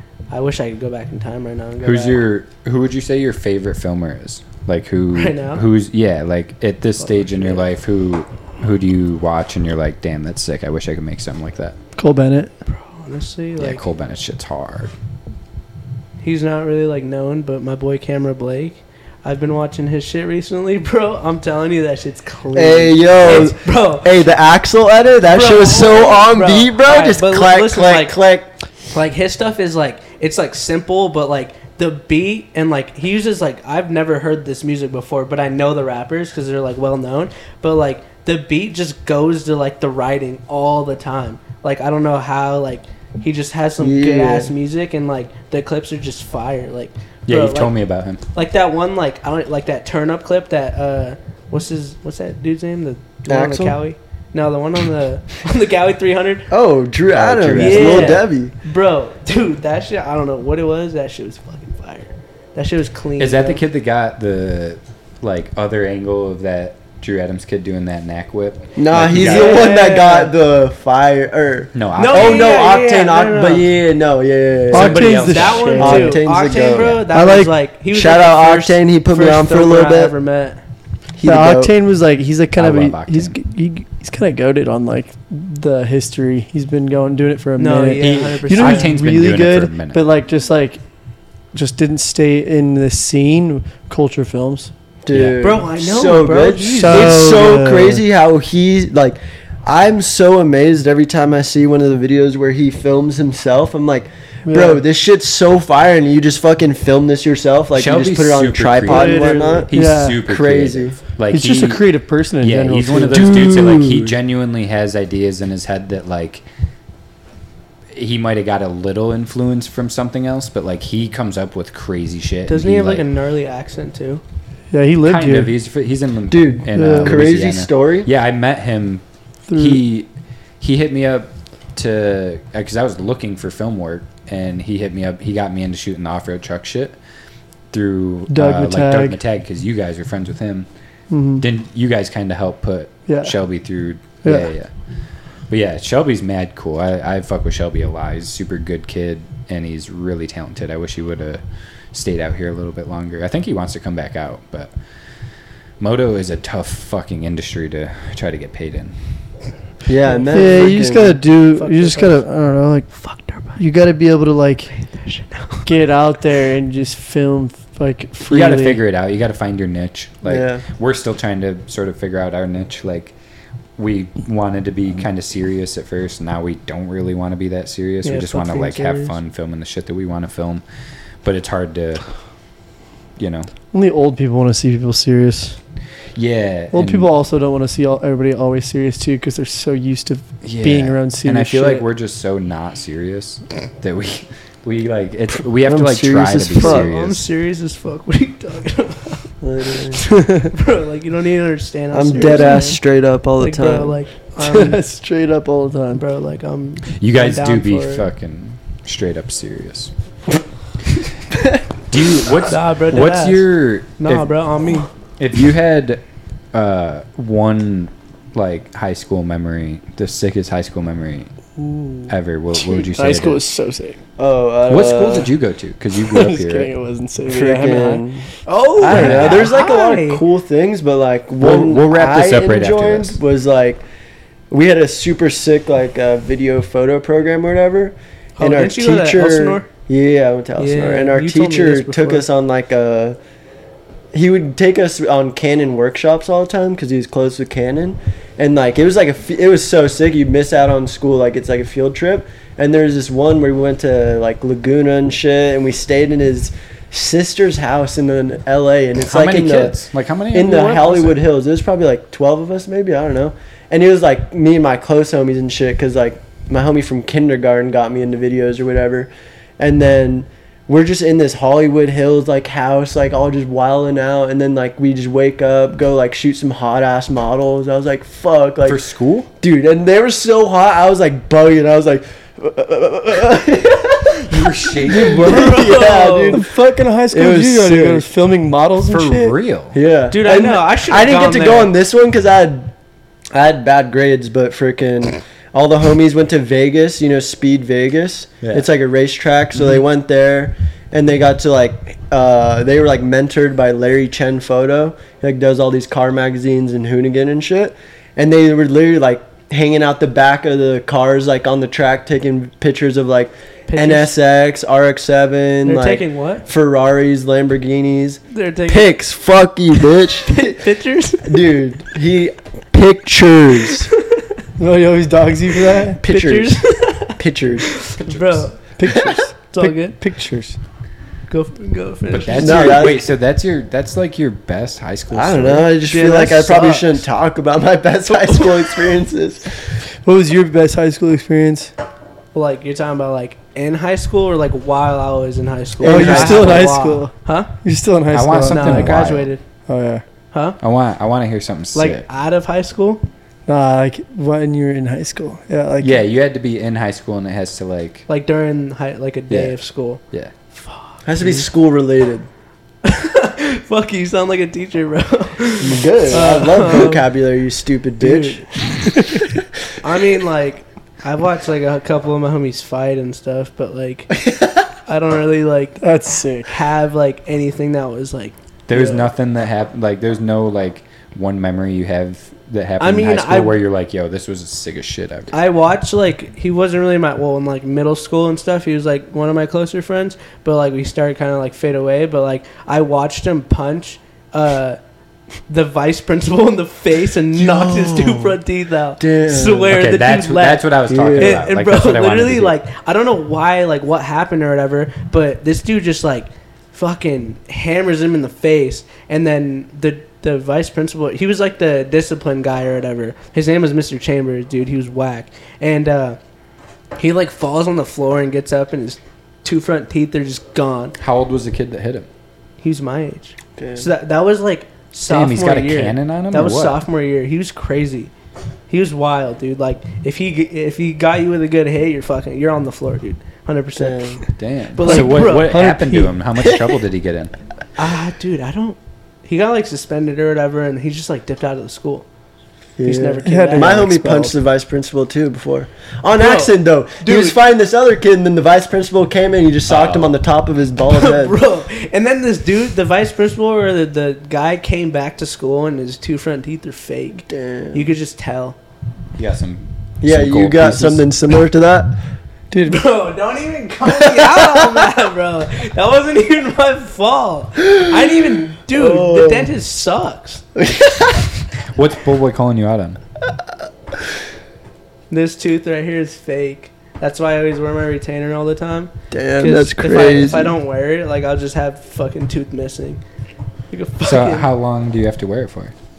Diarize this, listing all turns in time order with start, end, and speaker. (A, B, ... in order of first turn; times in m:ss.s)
0:00.3-0:02.2 A
0:01.8-0:11.8 B
0:05.1-0:05.6 A
0:07.0-0:07.7 A
0:12.0-0:12.5 C
0:12.7-0:13.8 A
0:13.6-0:14.9 B
0:16.2-0:24.1 A
0:22.5-0:28.5 D
0:25.3-0:28.2 A
0:28.9-0:47.7 A
0:43.8-0:44.5 D
0:47.3-0:48.2 B
0:48.4-0:56.5 A
0:53.3-0:53.8 D
0:56.5-0:58.5 D
0:57.1-0:58.2 B
0:57.6-1:03.6 A
1:03.2-1:09.7 B
1:08.8-1:17.0 D
1:09.1-1:10.3 A
1:11.7-1:12.5 B
1:12.0-1:13.7 A
1:14.7-1:16.0 B
1:14.7-1:16.2 C
1:15.0-1:20.6 A
1:17.1-1:17.5 C
1:17.9-1:20.1 D
1:21.2-1:21.7 D
1:21.2-1:30.8 C
1:22.6-1:23.4 B
1:27.6-1:29.0 A
1:28.0-1:30.0 B
1:31.5-1:34.7 C
1:35.0-1:51.0 D
1:35.1-1:35.6 B
1:35.4-1:37.3 A
1:36.7-1:38.0 C
1:44.4-1:44.8 C
1:47.8-1:51.8 B
1:48.9-1:50.2 C
1:51.3-1:54.0 C
1:52.4-1:56.4 B
1:57.9-2:03.0 B
2:02.5-2:04.2 A
2:04.7-2:05.5 C
2:05.0-2:09.0 B
2:06.3-2:08.1 D
2:06.7-2:07.2 C
2:09.5-2:09.8 C
2:09.6-2:10.1 B
2:10.6-2:17.0 B
2:17.7-2:20.7 B
2:18.3-2:19.2 C
2:21.1-2:21.4 C
2:21.4-2:24.7 B
2:23.1-2:23.4 C
2:24.2-2:24.5 C
2:25.5-2:31.4 B
2:31.9-2:34.7 B
2:35.8-2:39.0 B
2:39.9-2:41.2 D
2:40.1-2:40.8 A
2:40.3-2:44.8 C
2:41.6-2:42.2 A
2:42.9-2:43.6 A
2:44.9-2:45.7 A
2:45.6-2:48.8 C
2:48.3-2:53.1 B
2:50.2-2:50.6 D
2:53.8-3:00.6 B
2:58.0-2:59.1 A
3:01.2-3:02.1 B
3:03.2-3:03.5 B
3:03.7-3:05.6 C
3:06.2-3:07.1 B
3:06.7-3:11.9 C
3:10.4-3:17.3 B
3:15.7-3:16.9 D
3:16.6-3:19.3 A
3:19.4-3:20.0 D
3:20.2-3:20.5 C
3:20.5-3:22.8 A
3:21.9-3:24.0 D
3:23.4-3:24.8 A
3:24.4-3:26.0 C
3:26.0-3:28.0 A
3:27.0-3:29.9 B
3:31.9-3:34.3 B
3:32.5-3:33.4 A
3:34.0-3:34.9 A
3:35.2-3:36.0 B
3:36.5-3:41.3 B
3:41.6-3:44.0 C
3:42.1-3:43.4 B
3:44.2-3:45.3 D
3:44.7-3:46.7 B
3:46.1-3:48.0 C
3:47.3-3:48.2 D
3:48.5-3:50.2 A
3:48.8-3:53.8 D
3:48.8-3:49.5 B
3:51.4-3:53.2 B
3:54.5-4:03.2 D
3:58.4-3:59.7 A
4:00.6-4:02.2 A
4:04.1-4:19.8 D
4:19.1-4:21.2 B
4:20.3-4:38.8 D
4:38.6-4:39.3 B
4:39.4-4:46.5 D
4:44.3-4:45.7 B
4:45.2-4:46.4 A
4:46.3-4:49.3 C
4:47.1-4:48.1 D
4:48.8-4:49.8 B
4:49.7-4:52.7 D
4:50.1-4:51.7 A
4:53.3-5:20.6 D
4:58.4-4:58.7 B
5:13.7-5:14.1 A
5:15.7-5:16.4 A
5:18.3-5:18.9 A
5:20.3-5:21.5 A
5:21.2-5:23.9 D
5:24.6-5:26.0 C
5:26.0-5:26.6 D
5:26.0-5:27.2 A
5:27.2-5:27.7 D
5:27.7-5:28.7 A
5:28.8-5:30.6 C
5:29.4-5:30.0 A
5:31.3-5:32.9 A
5:32.1-5:35.7 B
5:32.4-5:33.1 D
5:35.1-5:39.5 D
5:35.8-5:37.0 A
5:38.1-5:38.9 A
5:40.0-5:41.7 C
5:42.3-5:47.5 A
5:45.8-5:46.7 D
5:45.8-5:49.1 C
5:46.0-5:46.4 B
5:48.1-5:49.3 B
5:48.5-5:49.4 A
5:49.7-5:50.0 C
5:50.3-5:50.6 A
5:50.6-5:52.1 B
5:51.8-5:53.0 A
5:53.5-5:56.0 C
5:55.8-5:58.1 B
5:58.1-6:00.0 A
5:59.3-5:59.6 B
6:00.5-6:01.5 A
6:01.0-6:02.3 D
6:02.8-6:07.1 A
6:05.6-6:08.4 D
6:08.0-6:08.5 A
6:09.0-6:09.2 C
6:09.8-6:14.3 A
6:14.9-6:15.8 A
6:15.8-6:16.6 C
6:16.5-6:19.1 A
6:18.7-6:25.3 B
6:22.8-6:23.6 A
6:25.3-6:34.8 A
6:35.5-6:56.2 A
6:37.3-6:38.4 D
6:39.0-6:39.7 D
6:39.7-6:42.6 B
6:40.9-6:41.4 D
6:57.0-7:01.0 A
7:01.0-7:02.1 B
7:02.6-7:08.1 A
7:03.6-7:03.9 D
7:05.1-7:06.8 B
7:08.7-7:15.5 A
7:13.8-7:14.2 D
7:14.4-7:17.3 B
7:14.8-7:16.1 C
7:17.8-7:22.1 A
7:22.8-7:31.4 D
7:22.8-7:23.8 A
7:23.2-7:24.3 C
7:26.2-7:27.4 A
7:29.7-7:30.2 B
7:30.9-7:38.6 A
7:37.3-7:37.9 D
7:39.2-7:41.0 B
7:40.0-7:42.0 D
7:42.5-7:42.8 C
7:42.7-7:50.4 A
7:43.9-7:44.8 D
7:48.6-7:49.5 D
7:50.6-7:51.2 D
7:51.7-7:53.0 B
7:55.1-8:03.0 A
7:59.1-8:00.6 D
8:03.7-8:04.5 A
8:04.0-8:05.7 B